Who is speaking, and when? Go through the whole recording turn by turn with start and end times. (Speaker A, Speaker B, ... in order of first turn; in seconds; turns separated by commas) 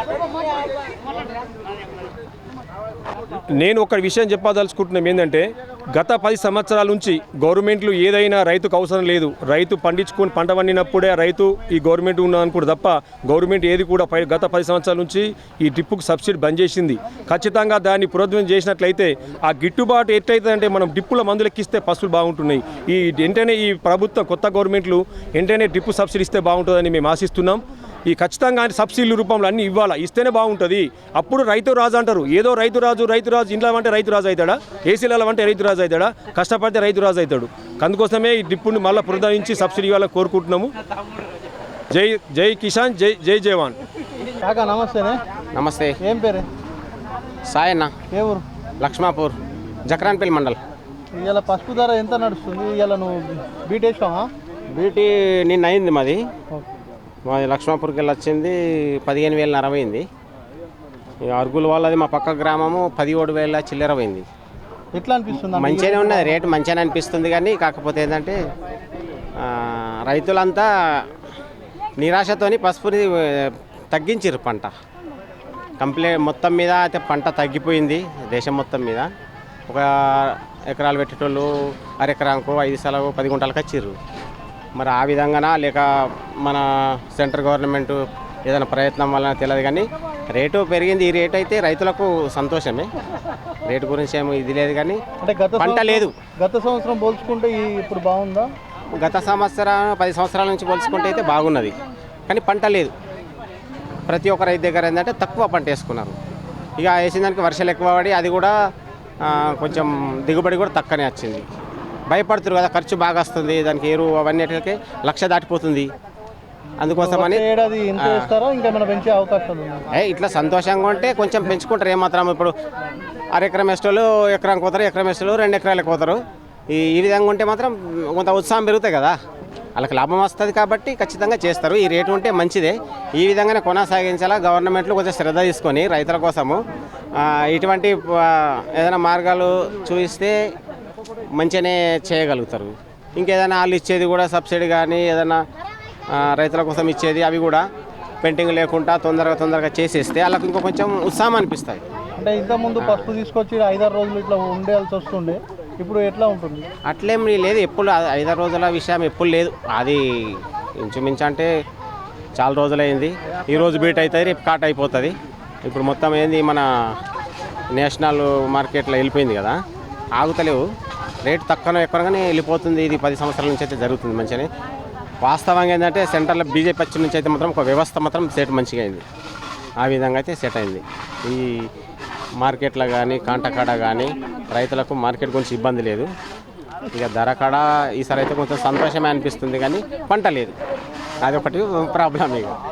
Speaker A: 3.5-40.7, Speaker A: 41.9-43.8, Speaker B: 44.4-45.2, Speaker C: 45.5-45.9, Speaker B: 46.0-46.5, Speaker C: 47.5-47.9, Speaker B: 48.1-48.4, Speaker C: 48.8-49.3, Speaker C: 49.9-50.6, Speaker B: 51.1-54.3, Speaker C: 54.8-56.2, Speaker C: 57.3-60.0, Speaker C: 61.2-64.2, Speaker B: 64.9-66.5, Speaker C: 65.5-68.3, Speaker C: 69.4-70.7, Speaker C: 72.0-74.7, Speaker C: 75.8-79.1, Speaker C: 79.7-81.5, Speaker C: 82.0-84.0, Speaker C: 84.8-85.8, Speaker C: 87.1-92.9, Speaker C: 93.7-95.0, Speaker B: 95.2-98.5, Speaker C: 95.6-96.1, Speaker C: 99.0-101.7, Speaker C: 102.3-102.9, Speaker C: 104.1-106.2, Speaker C: 106.8-108.5, Speaker C: 109.2-111.5, Speaker C: 112.1-115.9, Speaker C: 116.8-117.4, Speaker B: 116.9-119.9, Speaker C: 119.9-122.5, Speaker C: 123.3-129.2, Speaker C: 129.8-136.6, Speaker C: 137.2-140.3, Speaker C: 141.4-145.4, Speaker C: 146.2-147.6, Speaker C: 148.2-151.8, Speaker B: 152.2-156.7, Speaker C: 152.8-153.1, Speaker C: 156.9-161.5, Speaker C: 162.4-165.1, Speaker C: 165.7-166.6, Speaker C: 167.8-169.6, Speaker C: 170.2-170.6, Speaker C: 171.2-174.5, Speaker C: 175.2-179.0, Speaker C: 179.8-181.7, Speaker C: 182.4-186.1, Speaker C: 186.9-190.5, Speaker C: 191.2-192.6